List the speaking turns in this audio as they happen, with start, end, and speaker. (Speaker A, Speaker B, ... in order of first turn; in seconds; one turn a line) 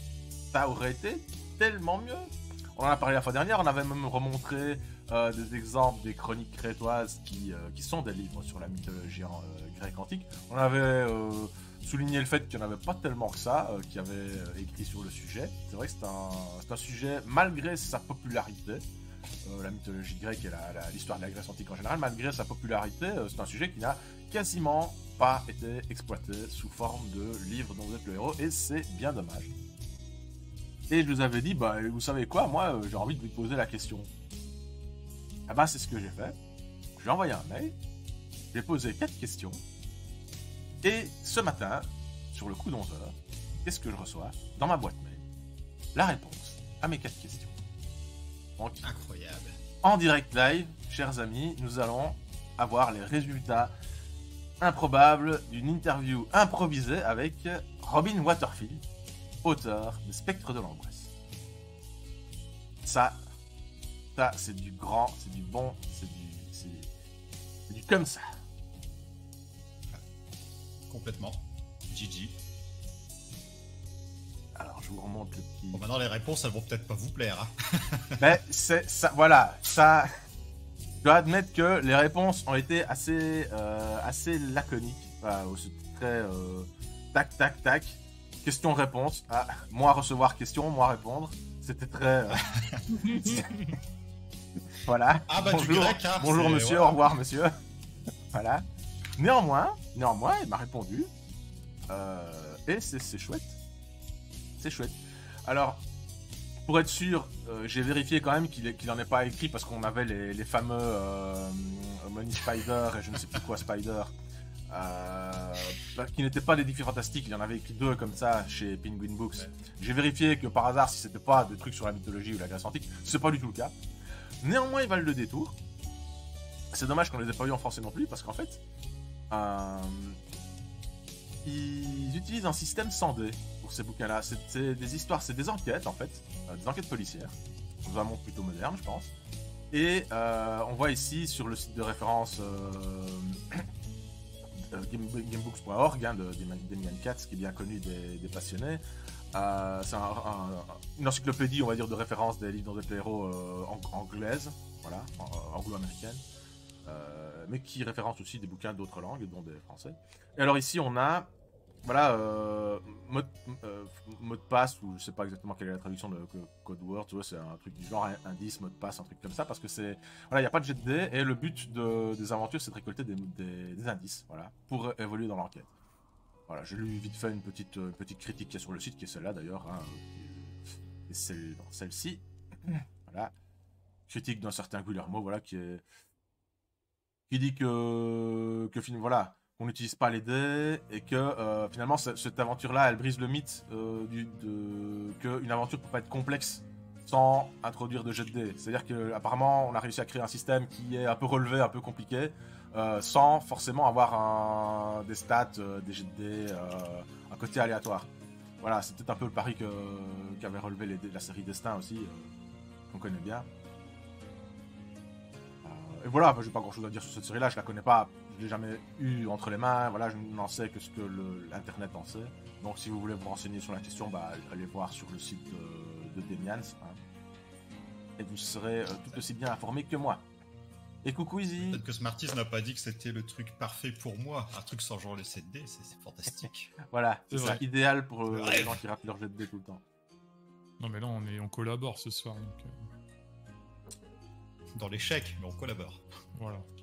Speaker A: 0.5-18.8
Speaker A: 19.4-29.5
Speaker A: 30.9-34.1
Speaker A: 35.5-36.4
Speaker A: 37.0-37.8
Speaker A: 38.5-39.6
Speaker A: 40.8-45.2
Speaker A: 45.9-47.6
Speaker A: 48.6-48.8
Speaker B: 48.8-49.6
Speaker A: 49.8-53.7
Speaker A: 54.6-58.8
Speaker A: 59.4-61.1
Speaker A: 62.8-63.2
Speaker A: 64.2-66.9
Speaker A: 67.7-68.2
Speaker B: 70.9-72.4
Speaker A: 74.5-75.8
Speaker B: 75.7-78.2
Speaker A: 78.2-80.1
Speaker A: 81.0-93.7
Speaker B: 92.5-93.0
Speaker A: 94.8-97.5
Speaker B: 95.3-97.0
Speaker A: 98.3-98.6
Speaker A: 99.2-101.1
Speaker A: 101.9-103.6
Speaker A: 104.6-105.8
Speaker A: 106.7-114.1
Speaker A: 114.7-123.8
Speaker A: 124.4-125.5
Speaker A: 126.7-128.6
Speaker A: 129.3-130.2
Speaker A: 131.4-139.1
Speaker A: 139.7-143.7
Speaker A: 144.6-148.8
Speaker A: 149.3-156.2
Speaker A: 156.8-161.3
Speaker A: 161.8-175.7
Speaker A: 176.5-183.3
Speaker A: 184.1-185.8
Speaker A: 187.3-208.1
Speaker A: 208.6-212.3
Speaker A: 212.9-213.5
Speaker A: 215.6-227.0
Speaker A: 228.2-230.2
Speaker A: 231.0-231.8
Speaker B: 231.7-236.7
Speaker A: 236.9-239.8
Speaker C: 237.3-237.6
Speaker B: 238.3-238.8
Speaker C: 240.8-242.9
Speaker B: 244.7-246.1
Speaker C: 246.4-246.7